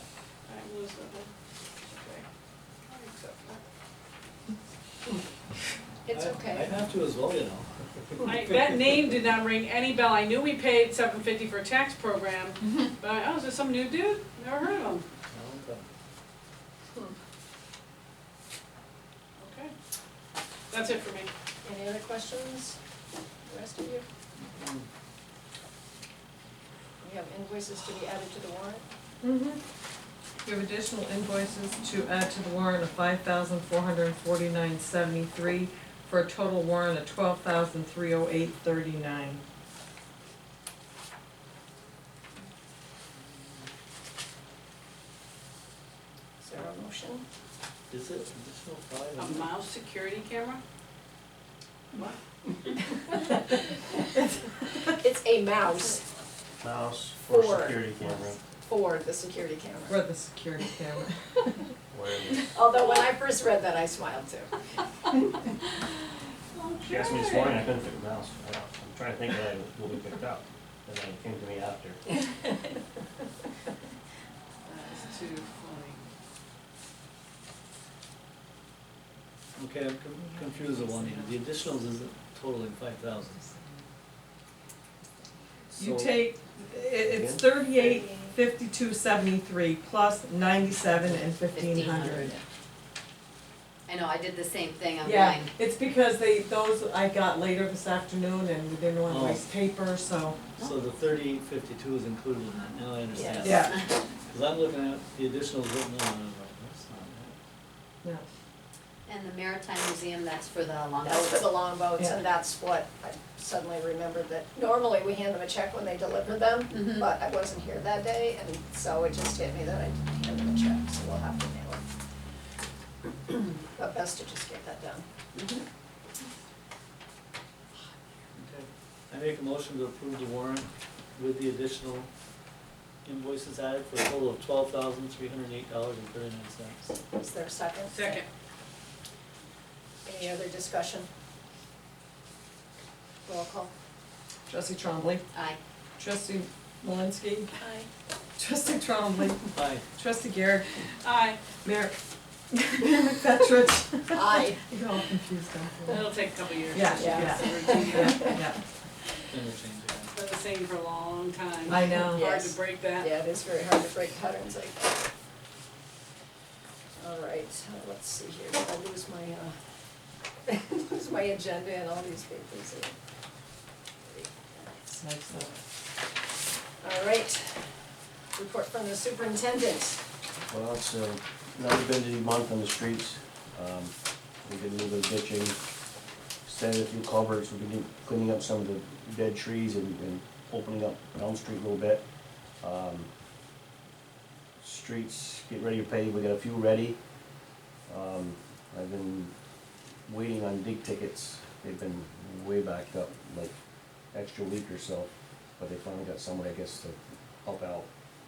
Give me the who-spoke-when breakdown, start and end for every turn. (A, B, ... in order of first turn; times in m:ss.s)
0:00.5-0:01.3 A
0:01.8-0:02.2 A
0:02.9-0:03.6 A
0:06.0-0:06.7 B
0:06.1-0:08.9 C
0:08.2-0:15.0 A
0:15.3-0:15.8 C
0:19.4-0:19.7 A
0:20.7-0:21.3 A
0:21.6-0:22.8 B
0:23.4-0:24.0 B
0:24.4-0:24.8 C
0:27.0-0:28.8 B
0:29.2-0:29.6 D
0:30.4-0:39.4 D
0:46.4-0:47.2 B
0:47.9-0:49.5 C
0:49.2-0:50.6 A
0:51.9-0:52.2 A
0:53.4-0:53.9 B
0:54.8-0:56.0 B
0:56.6-0:58.4 E
0:57.2-0:58.0 B
0:58.5-1:00.0 B
0:59.9-1:01.7 D
1:01.9-1:02.5 E
1:02.5-1:04.5 B
1:06.5-1:07.6 A
1:06.9-1:12.0 E
1:14.6-1:16.0 A
1:19.6-1:23.4 C
1:20.2-1:21.4 D
1:23.4-1:23.7 D
1:25.7-1:26.3 C
1:25.8-1:32.3 D
1:27.1-1:27.4 E
1:27.7-1:28.3 B
1:31.5-1:32.4 F
1:33.9-1:35.5 F
1:35.0-1:40.4 D
1:39.1-1:39.5 C
1:40.6-1:43.7 C
1:43.1-1:43.6 B
1:43.4-1:43.8 D
1:44.2-1:47.4 C
1:49.0-1:51.5 F
1:51.0-2:01.8 B
1:56.7-1:57.0 F
2:03.3-2:05.0 B
2:08.3-2:12.1 C
2:13.0-2:16.9 C
2:17.1-2:18.2 B
2:17.9-2:18.2 A
2:20.0-2:21.1 B
2:23.2-2:23.7 B
2:24.5-2:25.2 D
2:25.3-2:25.6 F
2:26.0-2:27.6 D
2:27.6-2:27.9 B
2:28.4-2:30.8 D
2:29.5-2:29.8 C
2:31.0-2:31.4 A
2:31.6-2:32.0 D
2:32.5-2:36.1 D
2:34.1-2:34.6 B
2:35.9-2:38.4 A
2:36.7-2:38.6 D
2:36.9-2:38.4 B
2:39.3-2:40.1 C
2:40.1-2:43.1 A
2:41.7-2:42.3 D
2:42.1-2:44.8 B
2:47.0-2:49.5 B
2:50.4-2:52.9 B
2:54.0-2:55.6 B
2:54.9-2:55.5 D
2:56.8-2:57.7 B
2:58.4-3:00.0 B
3:00.5-3:03.9 E
3:04.4-3:05.6 E
3:06.4-3:12.0 E
3:12.6-3:13.1 E
3:14.6-3:17.0 E
3:17.9-3:19.3 E
3:20.0-3:23.5 E
3:24.1-3:27.9 E